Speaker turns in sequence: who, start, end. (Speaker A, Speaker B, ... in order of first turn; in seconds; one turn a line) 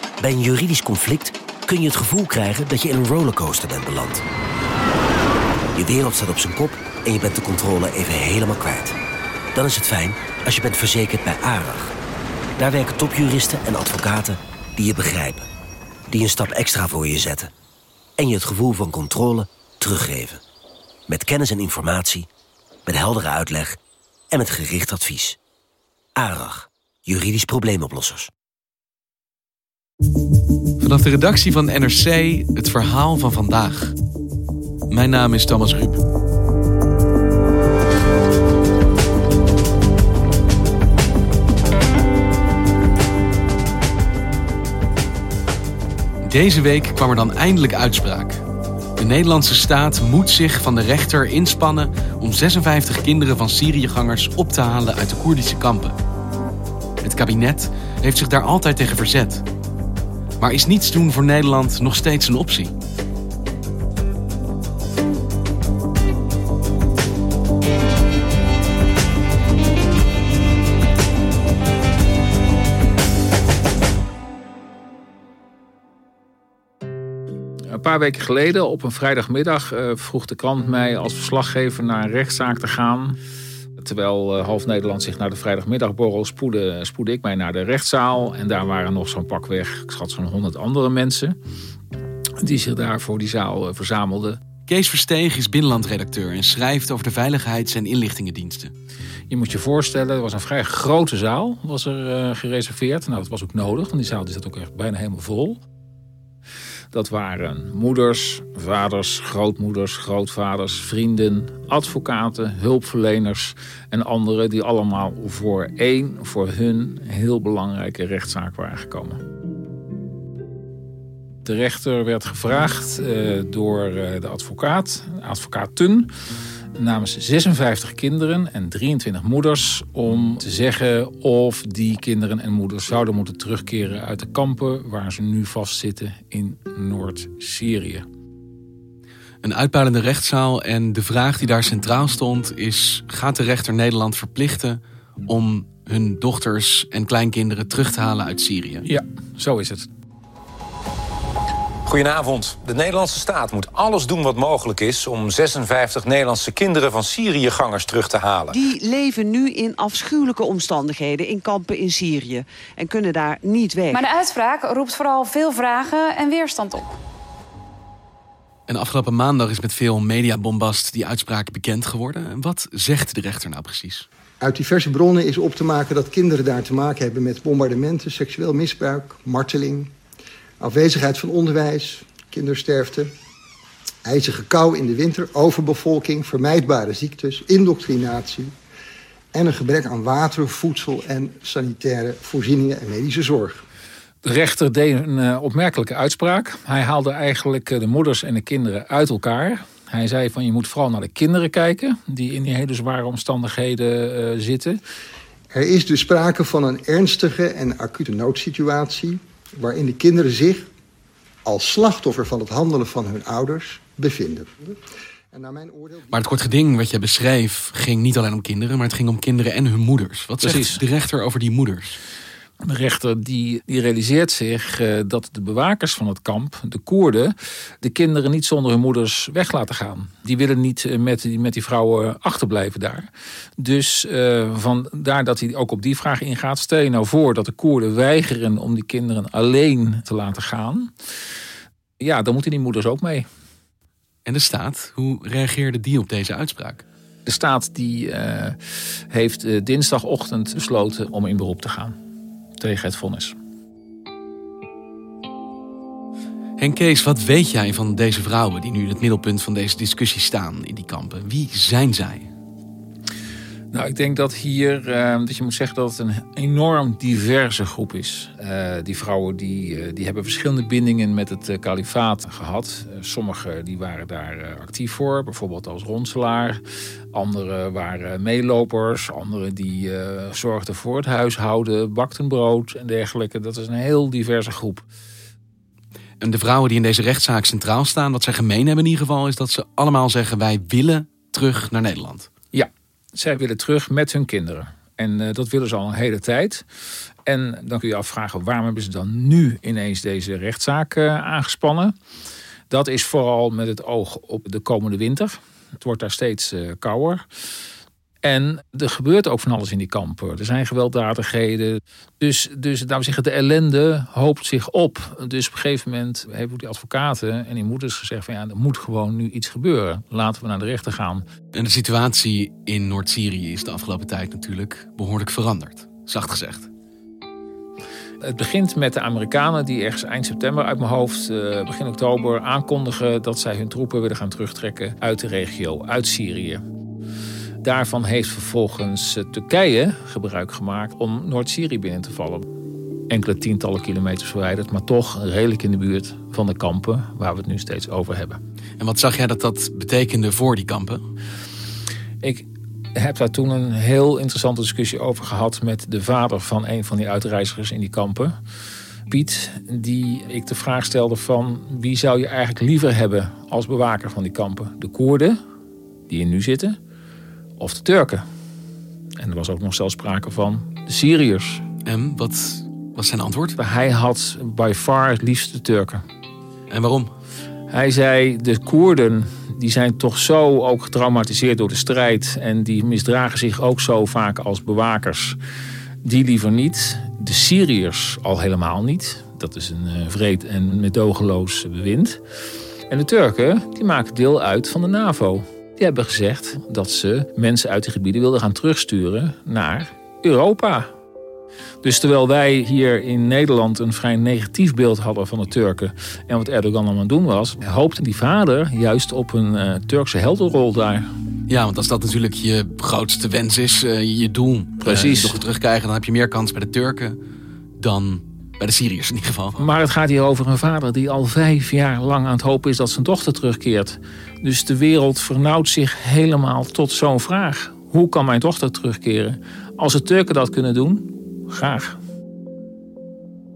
Speaker A: 0.2-4.2
Speaker A: 5.8-8.9
Speaker A: 9.6-11.9
Speaker A: 12.6-15.5
Speaker A: 16.1-17.5
Speaker A: 18.2-20.4
Speaker A: 21.1-22.3
Speaker A: 22.9-23.8
Speaker A: 24.3-25.4
Speaker A: 26.2-28.3
Speaker B: 30.8-34.0
Speaker B: 34.9-36.0
Speaker B: 46.2-48.4
Speaker B: 49.0-56.0
Speaker B: 57.0-59.4
Speaker B: 60.4-62.7
Speaker C: 77.7-83.2
Speaker C: 83.8-91.4
Speaker C: 92.4-94.4
Speaker B: 94.7-98.7
Speaker C: 99.3-105.6
Speaker C: 106.9-119.2
Speaker C: 121.4-126.1
Speaker C: 126.8-138.1
Speaker B: 139.4-148.8
Speaker C: 148.8-149.9
Speaker D: 151.9-158.7
Speaker E: 158.5-164.0
Speaker F: 163.9-166.9
Speaker B: 168.7-174.1
Speaker G: 174.4-179.9
Speaker G: 180.6-183.1
Speaker G: 184.0-188.5
Speaker G: 189.3-193.6
Speaker C: 194.2-204.8
Speaker G: 205.5-210.7
Speaker G: 211.4-214.8
Speaker G: 215.3-216.3
Speaker B: 216.1-222.0
Speaker C: 220.4-220.8
Speaker C: 222.6-240.9
Speaker C: 242.0-243.3
Speaker B: 244.3-246.8
Speaker C: 247.3-248.6
Speaker C: 249.1-252.0
Speaker C: 252.6-253.4
Speaker B: 256.6-262.3
Speaker C: 263.7-276.6
Speaker C: 277.1-284.9
Speaker B: 286.2-292.3
Speaker C: 292.5-296.6
Speaker C: 297.3-301.9
Speaker C: 302.7-307.2
Speaker C: 308.2-321.2
Speaker B: 321.5-326.7
Speaker C: 328.2-336.6
Speaker C: 337.6-342.5
Speaker C: 343.1-348.4
Speaker B: 348.8-351.0
Speaker C: 352.2-358.4
Speaker C: 359.1-365.4
Speaker C: 366.1-366.8
Speaker C: 367.6-368.2
Speaker C: 369.2-371.6
Speaker B: 371.9-373.6
Speaker C: 373.6-376.0
Speaker B: 376.7-377.1
Speaker C: 377.7-385.4
Speaker C: 386.0-392.2
Speaker C: 392.9-400.9
Speaker C: 401.8-411.1
Speaker B: 411.5-417.2
Speaker C: 414.8-415.4
Speaker B: 417.8-419.7
Speaker C: 419.6-432.0